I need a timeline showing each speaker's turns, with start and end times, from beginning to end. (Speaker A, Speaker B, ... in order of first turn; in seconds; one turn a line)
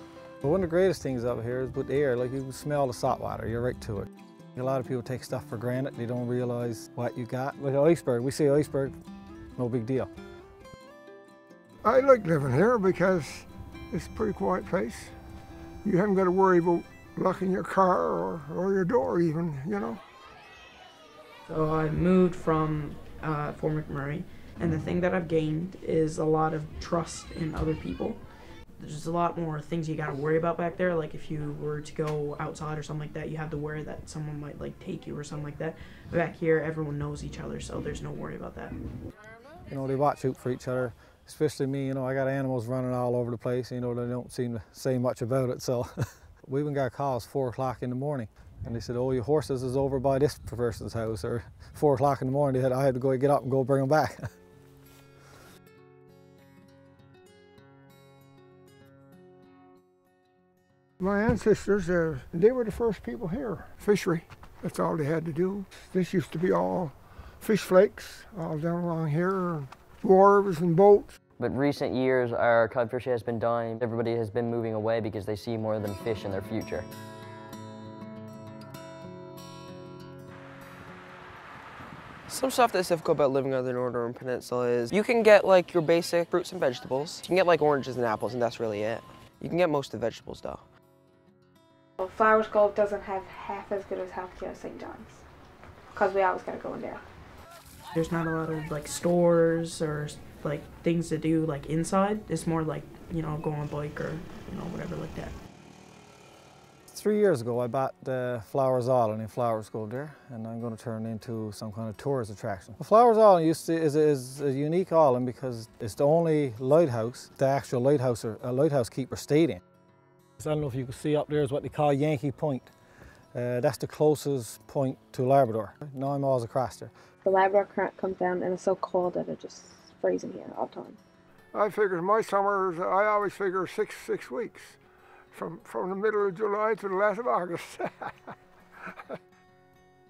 Speaker A: 0.4-8.9
Speaker A: 9.6-10.1
Speaker B: 11.8-15.1
Speaker B: 15.8-20.0
Speaker C: 21.5-28.2
Speaker C: 28.8-38.7
Speaker A: 39.7-54.2
Speaker B: 61.0-71.2
Speaker D: 71.4-76.9
Speaker E: 82.3-90.6
Speaker F: 92.0-95.2
Speaker F: 95.9-97.0
Speaker C: 98.0-105.3
Speaker A: 106.9-119.6
Speaker A: 120.4-122.7
Speaker A: 123.3-126.9
Speaker F: 127.2-131.0
Speaker B: 131.5-134.8
Speaker B: 135.3-138.1